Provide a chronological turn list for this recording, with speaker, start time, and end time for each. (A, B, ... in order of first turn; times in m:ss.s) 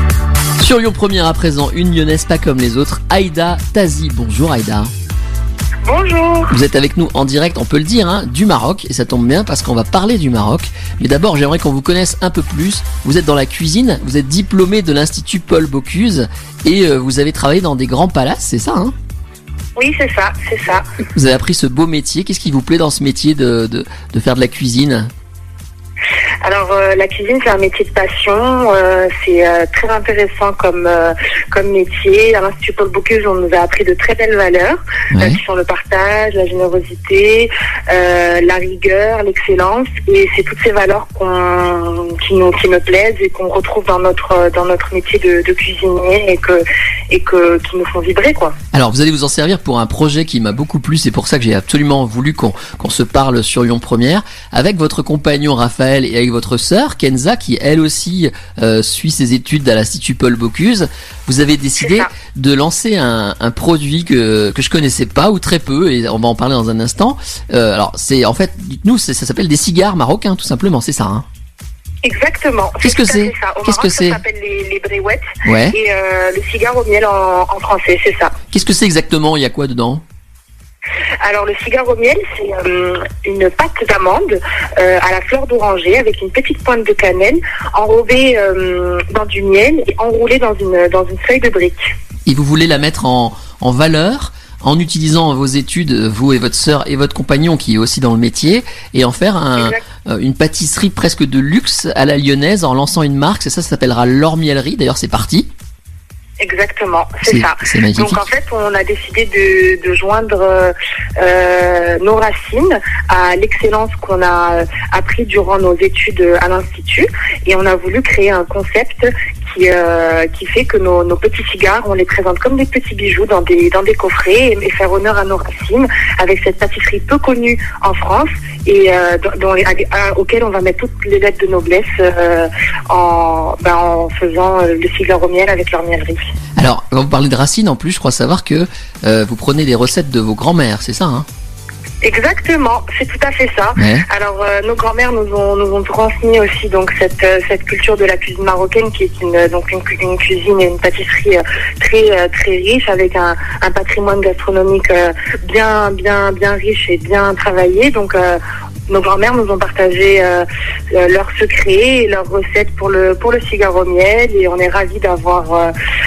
0:00.6-0:04.9 A
0:05.8-0:06.5 B
0:06.5-0:18.9 A
0:19.8-0:20.8 B
0:21.1-0:25.1 A
0:26.4-0:48.6 B
0:35.1-0:35.4 A
0:48.7-1:11.2 A
1:01.8-1:02.1 B
1:12.0-1:18.3 B
1:12.8-1:14.2 A
1:15.4-1:15.8 A
1:18.5-1:20.0 A
1:21.2-1:31.9 B
1:32.3-1:45.5 A
1:46.4-2:16.2 B
1:47.2-1:48.2 A
2:16.6-2:21.2 A
2:22.0-2:45.7 B
2:23.8-2:24.1 A